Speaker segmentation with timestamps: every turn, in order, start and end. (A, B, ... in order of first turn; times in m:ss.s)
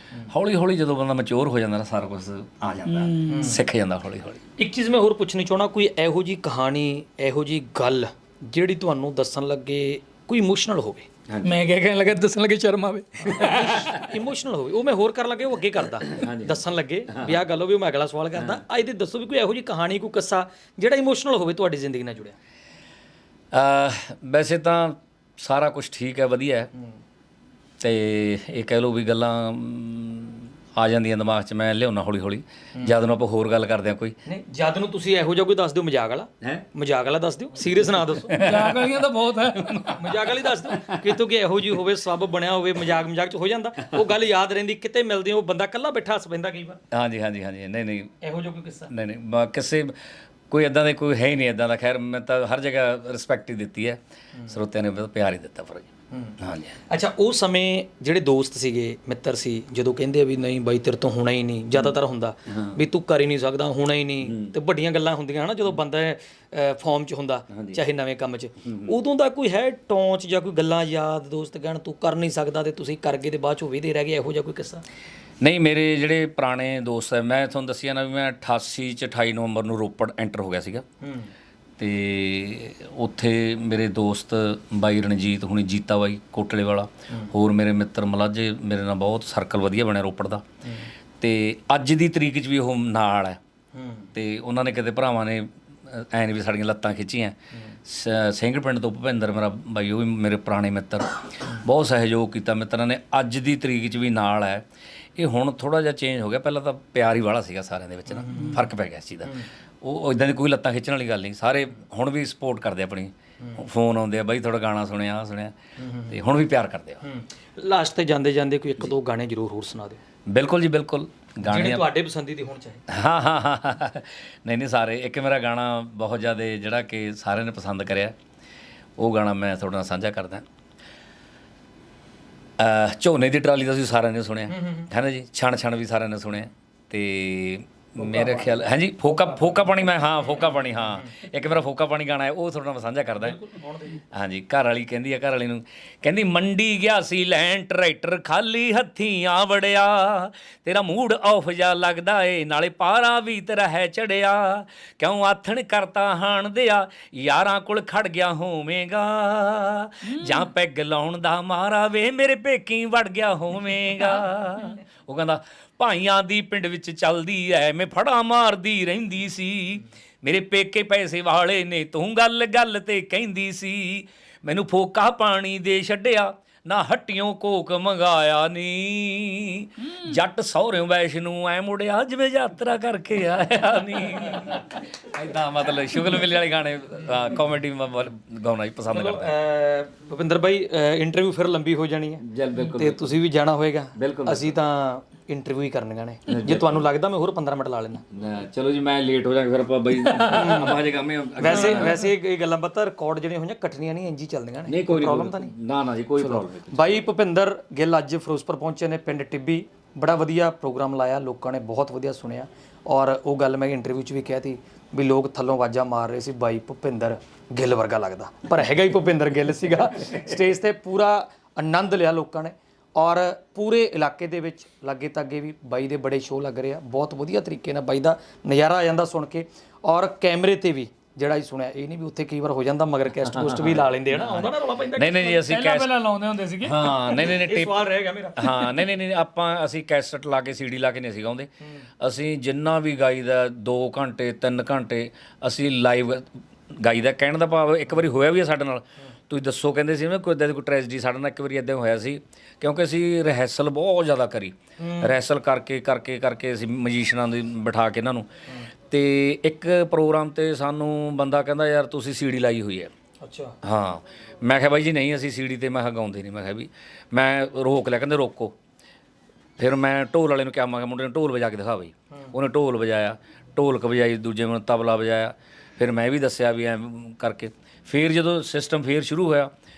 0:00.3-0:04.4 A
0:02.9-0:03.6 B
0:03.3-0:03.6 C
0:04.6-0:11.1 C
0:11.3-0:11.5 A
0:11.4-0:14.0 B
0:13.4-0:22.4 C
0:13.4-0:14.0 A
0:16.0-0:17.4 A
0:23.5-0:26.7 A
0:27.8-0:34.2 A
0:34.3-0:38.4 C
0:36.4-0:36.7 A
0:38.3-0:38.8 A
0:38.4-0:40.0 B
0:39.6-0:41.2 A
0:40.0-0:46.8 C
0:46.9-0:48.1 A
0:48.2-0:48.9 C
0:48.9-0:50.0 A
0:50.5-0:56.8 A
0:56.1-0:56.4 C
0:56.9-1:14.8 C
1:02.5-1:02.8 A
1:04.2-1:04.5 A
1:07.5-1:07.8 A
1:08.6-1:08.9 A
1:15.4-1:20.8 A
1:21.0-1:21.3 C
1:21.8-1:30.5 A
1:31.2-1:33.4 A
1:33.7-1:34.1 C
1:34.1-1:44.6 A
1:45.2-1:57.0 A
1:48.2-1:48.6 C
1:55.8-1:56.1 C
1:57.0-2:00.0 C
2:00.3-2:01.9 A
2:01.4-2:02.8 C
2:02.9-2:08.2 A
2:09.0-2:10.4 A
2:12.6-2:23.4 A
2:14.5-2:14.9 C
2:18.0-2:18.5 C
2:23.2-2:24.0 C
2:24.1-3:09.3 A
2:40.1-2:40.5 B
3:08.9-3:18.0 C
3:12.2-3:13.1 A
3:14.0-3:14.6 A
3:16.3-3:16.7 A
3:18.1-3:22.0 A
3:20.1-3:20.8 C
3:21.4-3:25.5 C
3:24.7-3:27.0 A
3:26.2-3:55.4 C
3:53.2-3:55.9 A
3:55.3-3:57.0 B
3:56.6-3:57.8 A
3:57.2-3:58.6 C
3:58.4-4:18.3 A
4:14.8-4:15.2 C
4:18.9-4:22.9 A
4:23.2-4:23.6 C
4:23.6-4:28.5 A
4:29.6-4:39.5 A